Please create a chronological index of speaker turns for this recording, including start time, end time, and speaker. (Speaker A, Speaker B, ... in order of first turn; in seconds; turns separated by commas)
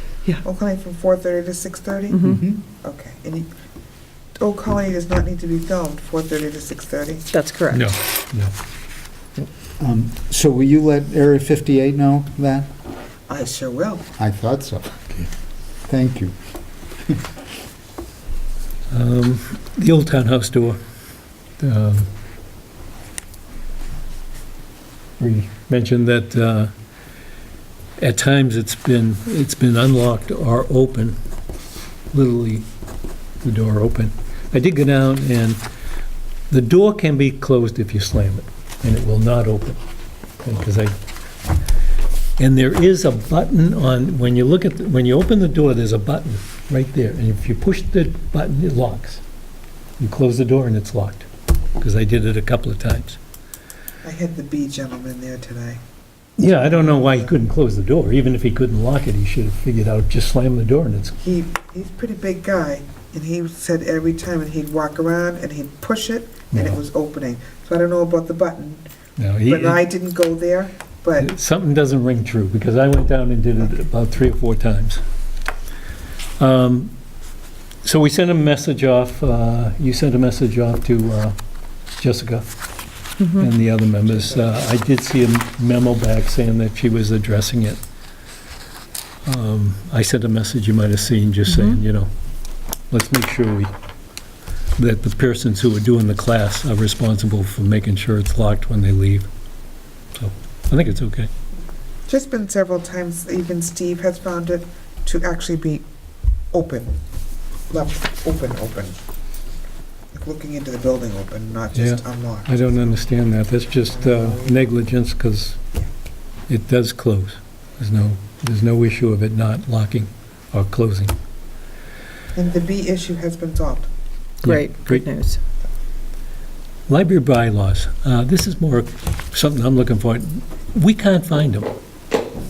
Speaker A: 0.4-2.2, Speaker B: 2.1-2.4, Speaker C: 2.2-2.6, Speaker A: 2.7-3.5, Speaker A: 4.4-7.2, Speaker B: 7.3-7.8, Speaker D: 7.7-8.5, Speaker C: 9.8-12.7, Speaker A: 13.3-14.1, Speaker C: 14.2-15.1, Speaker C: 15.9-16.3, Speaker D: 18.9-20.8, Speaker D: 21.6-22.1, Speaker D: 25.2-26.7, Speaker D: 28.0-31.2, Speaker D: 32.1-32.7, Speaker D: 33.4-35.6, Speaker D: 36.5-39.8, Speaker D: 40.4-40.9, Speaker D: 42.4-49.2, Speaker D: 50.0-51.3, Speaker D: 51.8-53.2, Speaker A: 54.0-55.8, Speaker D: 56.4-61.1, Speaker A: 56.5-57.3, Speaker A: 61.2-68.8, Speaker D: 66.5-66.8, Speaker D: 69.2-69.9, Speaker A: 69.5-71.3, Speaker D: 71.2-75.0, Speaker D: 76.4-76.9, Speaker D: 77.8-81.3, Speaker D: 82.0-82.5, Speaker B: 83.2-83.5, Speaker D: 83.4-87.8, Speaker D: 89.2-92.1, Speaker B: 91.5-91.8, Speaker D: 92.9-93.7, Speaker D: 94.8-99.3, Speaker D: 100.1-101.3, Speaker A: 102.1-105.8, Speaker A: 106.5-107.0, Speaker A: 107.7-109.0, Speaker A: 110.1-113.0, Speaker D: 111.7-115.6, Speaker A: 113.9-114.6, Speaker D: 116.5-121.2, Speaker A: 122.3-123.9, Speaker D: 124.4-125.0, Speaker B: 124.4-125.4, Speaker D: 126.9-131.7